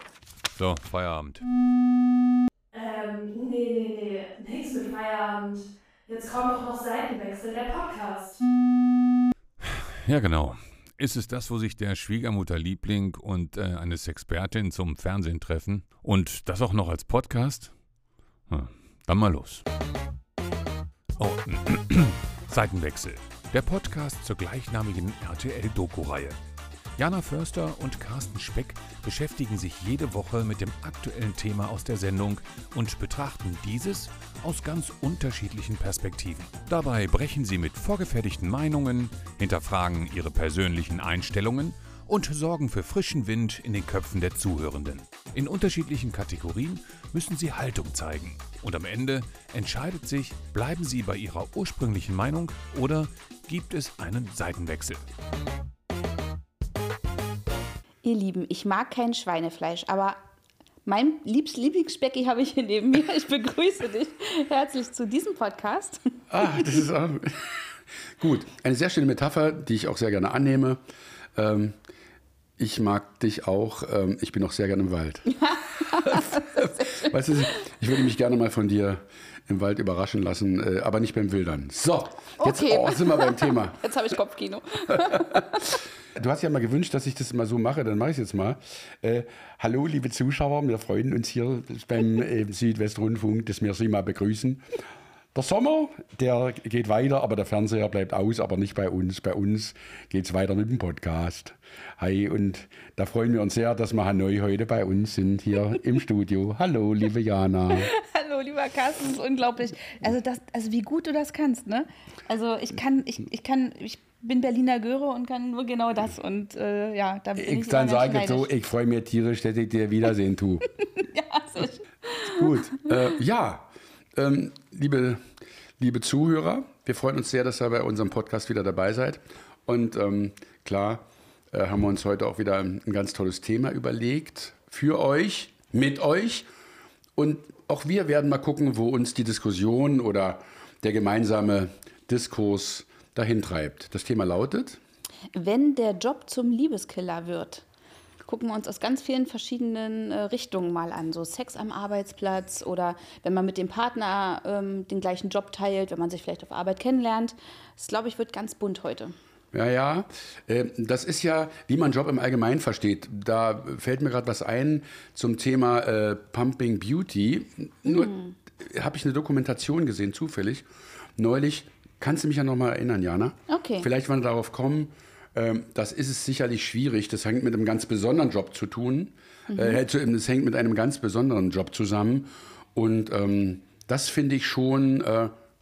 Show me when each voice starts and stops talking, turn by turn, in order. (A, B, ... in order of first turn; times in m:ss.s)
0:00.6-0:01.4 A
0:02.7-0:08.4 B
0:09.6-0:17.7 A
0:18.5-0:19.6 A
0:21.2-0:26.4 A
0:27.0-0:55.0 A
0:58.0-1:00.2 C
1:00.8-1:06.6 C
1:06.3-1:10.8 D
1:11.3-1:11.8 D
1:12.6-1:15.3 D
1:15.3-1:17.1 C
1:15.8-1:23.8 D
1:22.4-1:25.8 C
1:24.9-1:25.4 D
1:26.1-1:34.6 D
1:35.3-1:47.9 D
1:47.7-1:58.5 C
1:57.4-2:00.7 D
2:01.0-2:02.5 C
2:02.2-2:05.2 D
2:05.8-2:16.5 D
2:17.2-2:24.8 D
2:25.3-2:27.6 C
2:28.2-2:39.1 C
2:39.5-3:05.3 D
2:47.8-2:48.3 C
2:53.5-2:53.9 C
2:59.5-2:59.8 C